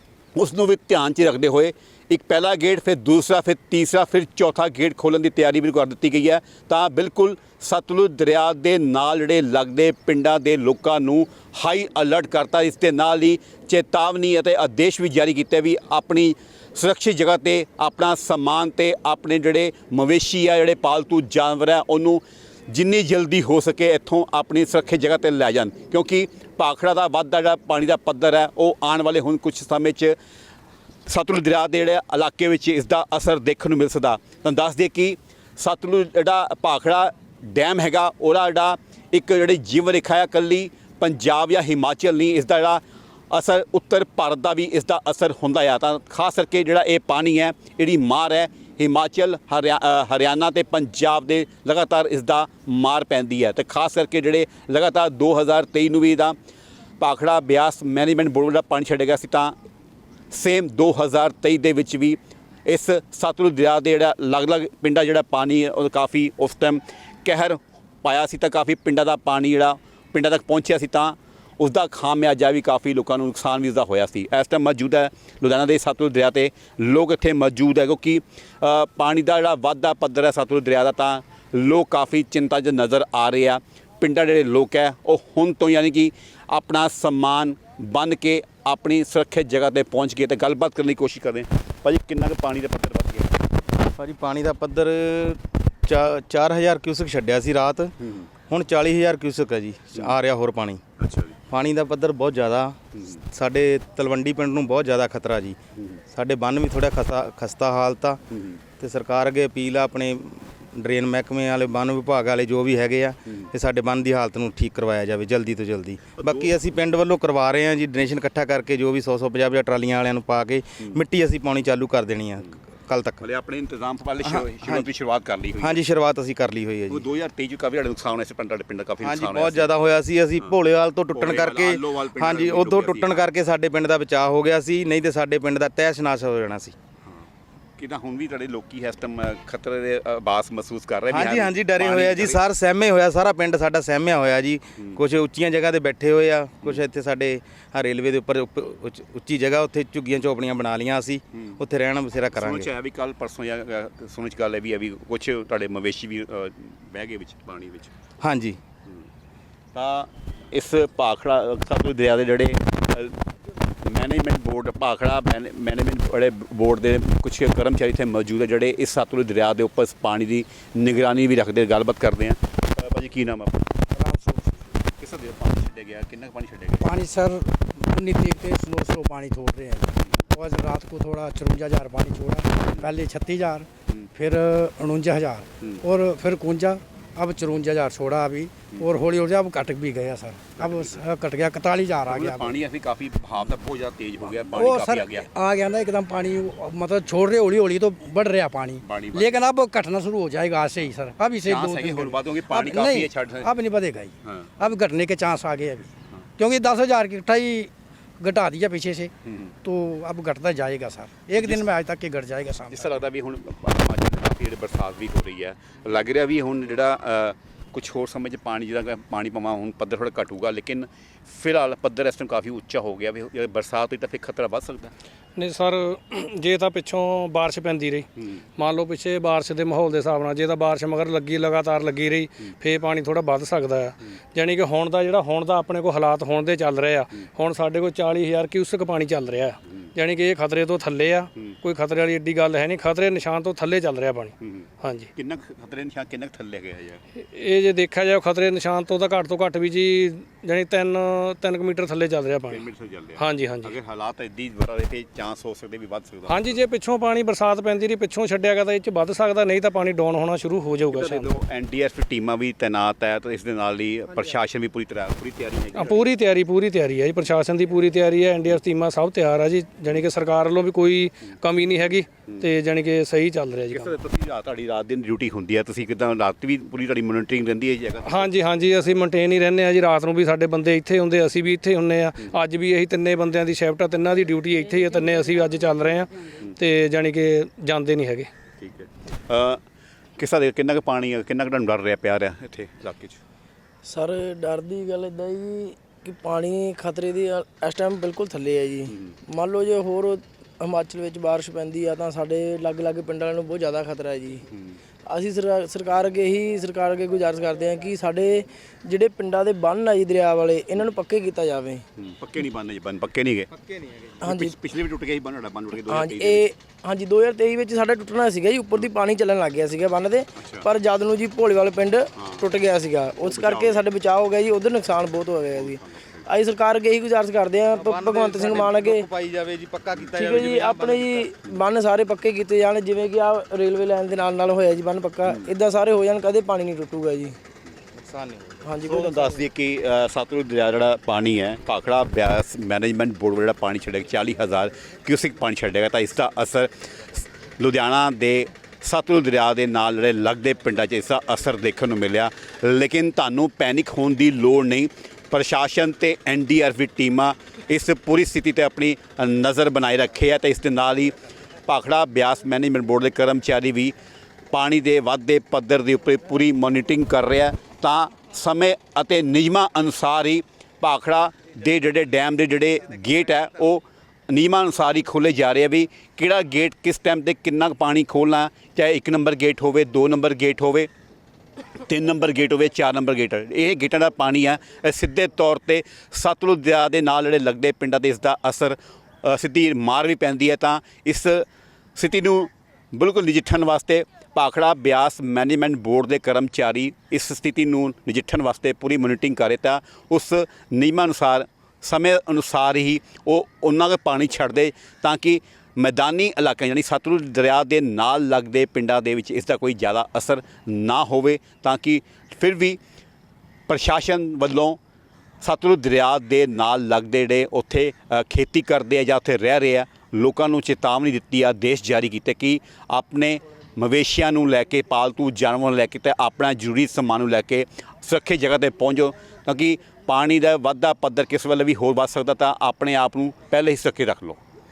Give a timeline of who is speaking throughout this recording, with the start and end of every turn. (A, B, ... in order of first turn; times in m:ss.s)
0:00.3-0:30.2 A
0:31.0-0:56.3 A
0:57.0-0:59.5 A
1:00.3-1:33.3 A
1:34.0-1:37.9 B
1:38.0-1:38.3 A
1:38.5-1:40.8 B
1:41.0-1:41.4 A
1:41.5-1:45.6 B
1:42.9-1:43.2 A
1:46.1-1:48.2 B
1:48.3-1:48.6 A
1:48.8-2:03.2 B
1:56.2-1:56.6 A
2:03.2-2:05.8 A
2:04.2-2:04.9 B
2:05.6-2:07.0 B
2:06.9-2:09.7 A
2:09.0-2:16.7 B
2:11.1-2:13.2 A
2:17.8-2:22.4 A
2:21.1-2:32.7 B
2:31.3-2:31.6 A
2:32.3-2:37.9 A
2:38.2-2:38.6 B
2:39.7-2:43.2 A
2:43.8-2:53.6 A
2:53.9-2:54.5 C
2:55.0-2:56.9 A
2:56.8-3:12.5 C
3:10.6-3:11.0 A
3:12.1-3:15.2 A
3:14.5-3:29.1 C
3:18.8-3:19.4 A
3:21.4-3:23.5 A
3:29.6-3:33.0 C
3:31.4-3:31.6 A
3:32.7-3:44.9 A
3:45.4-3:48.1 D
3:48.6-4:05.1 D
4:04.4-4:07.0 A
4:07.2-4:12.6 D
4:12.5-4:16.6 A
4:13.2-4:13.7 D
4:16.3-4:21.3 D
4:20.9-4:26.0 A
4:25.7-4:33.9 D
4:33.7-4:38.3 A
4:38.0-4:48.3 D
4:48.6-4:49.6 A
4:50.2-4:53.2 A
4:53.8-5:04.4 E
5:05.1-5:11.8 E
5:12.0-5:13.5 A
5:14.2-5:14.6 E
5:14.2-5:16.4 A
5:15.9-5:29.0 E
5:20.4-5:20.6 A
5:22.2-5:22.4 A
5:23.2-5:23.9 A
5:25.5-5:26.2 A
5:27.7-5:31.3 B
5:30.2-5:37.4 E
5:38.0-5:38.7 B
5:38.7-5:39.4 E
5:38.8-6:01.1 A
6:01.6-6:03.9 A
6:04.5-6:20.9 A
6:21.8-6:31.4 A
6:32.0-6:52.8 A
6:53.7-6:54.8 A
6:55.4-7:14.4 A